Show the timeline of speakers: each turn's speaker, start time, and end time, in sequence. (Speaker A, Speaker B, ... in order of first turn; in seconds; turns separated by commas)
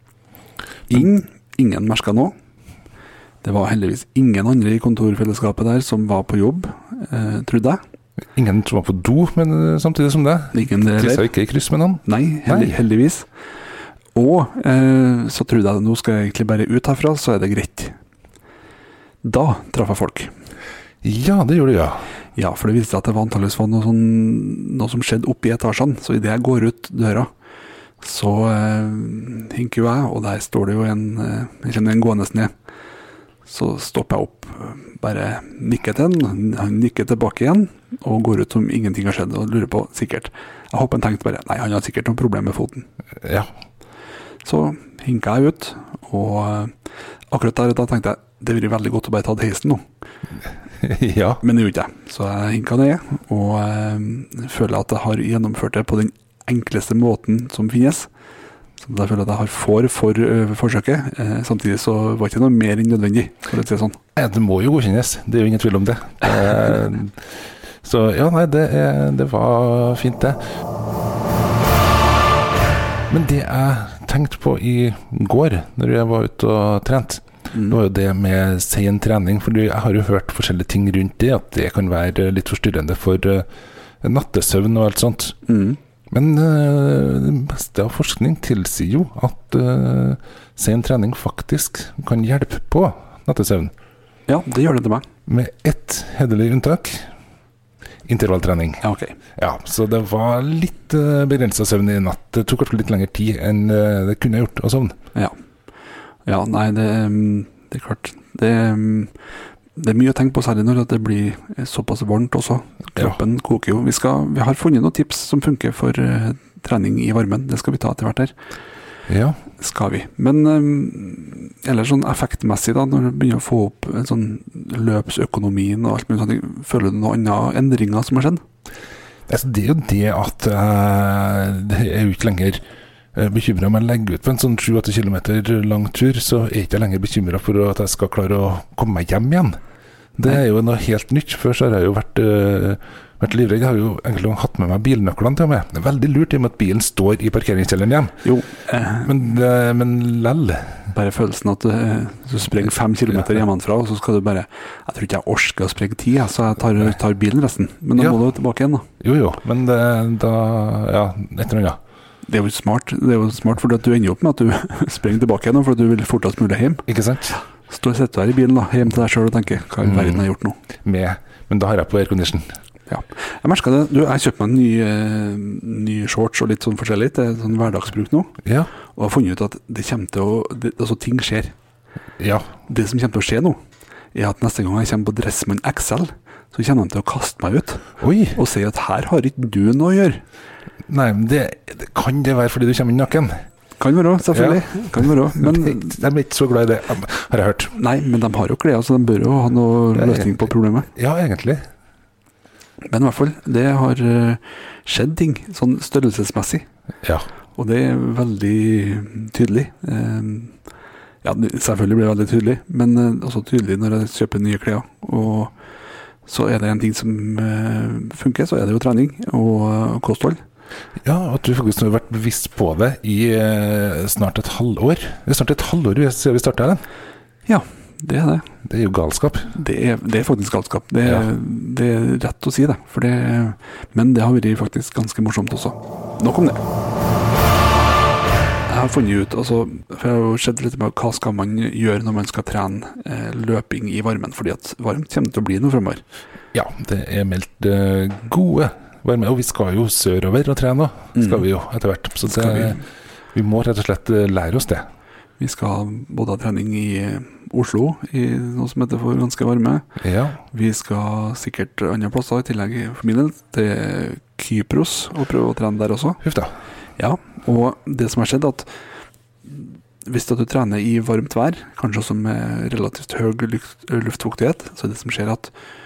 Speaker A: 0.9-2.3, Speaker A: 3.4-7.8, Speaker B: 8.3-12.8, Speaker A: 10.5-11.3, Speaker A: 12.0-13.3, Speaker A: 14.1-17.9, Speaker A: 19.2-20.3, Speaker B: 21.0-22.0, Speaker A: 22.4-27.3, Speaker A: 28.0-32.5, Speaker A: 33.5-42.9, Speaker B: 43.2-43.5, Speaker A: 44.4-46.7, Speaker A: 47.3-49.8, Speaker B: 50.8-51.4, Speaker A: 51.4-58.1, Speaker A: 58.8-64.0, Speaker B: 64.2-67.3, Speaker B: 67.8-70.4, Speaker B: 73.1-83.5, Speaker A: 77.5-77.8, Speaker B: 84.0-85.3, Speaker A: 85.5-85.8, Speaker B: 86.1-93.7, Speaker A: 94.3-95.0, Speaker B: 95.3-97.1, Speaker B: 98.1-98.8, Speaker A: 98.8-99.2, Speaker B: 99.4-104.9, Speaker A: 106.2-109.1, Speaker A: 109.8-118.3, Speaker B: 119.1-119.4, Speaker A: 119.6-128.4, Speaker B: 129.3-132.6, Speaker B: 133.1-139.6, Speaker B: 140.2-148.1, Speaker A: 148.2-149.2, Speaker B: 149.0-150.9, Speaker A: 150.9-158.8, Speaker B: 159.0-161.8, Speaker A: 162.2-166.8, Speaker B: 166.9-167.4, Speaker A: 167.4-170.6, Speaker B: 169.8-170.2, Speaker B: 170.8-172.4, Speaker A: 172.9-178.3, Speaker B: 178.4-178.7, Speaker A: 178.9-181.5, Speaker B: 182.2-182.5, Speaker A: 182.7-183.6, Speaker A: 184.1-187.8, Speaker B: 188.0-188.4, Speaker A: 188.3-190.2, Speaker B: 190.9-193.3, Speaker A: 193.8-196.0, Speaker B: 194.3-194.6, Speaker B: 195.3-197.7, Speaker A: 197.7-200.9, Speaker B: 199.9-200.4, Speaker B: 200.9-201.6, Speaker A: 202.8-206.7, Speaker A: 207.6-210.5, Speaker A: 211.2-215.5, Speaker A: 216.2-220.4, Speaker B: 221.0-226.8, Speaker A: 227.4-228.4, Speaker B: 228.6-229.5, Speaker A: 229.5-236.6, Speaker A: 238.7-246.0, Speaker B: 246.5-252.8, Speaker A: 251.1-251.4, Speaker A: 252.3-252.8, Speaker B: 253.3-254.8, Speaker A: 255.4-259.9, Speaker B: 260.0-260.4, Speaker A: 260.5-266.2, Speaker B: 266.2-266.5, Speaker A: 267.0-268.6, Speaker A: 269.4-275.5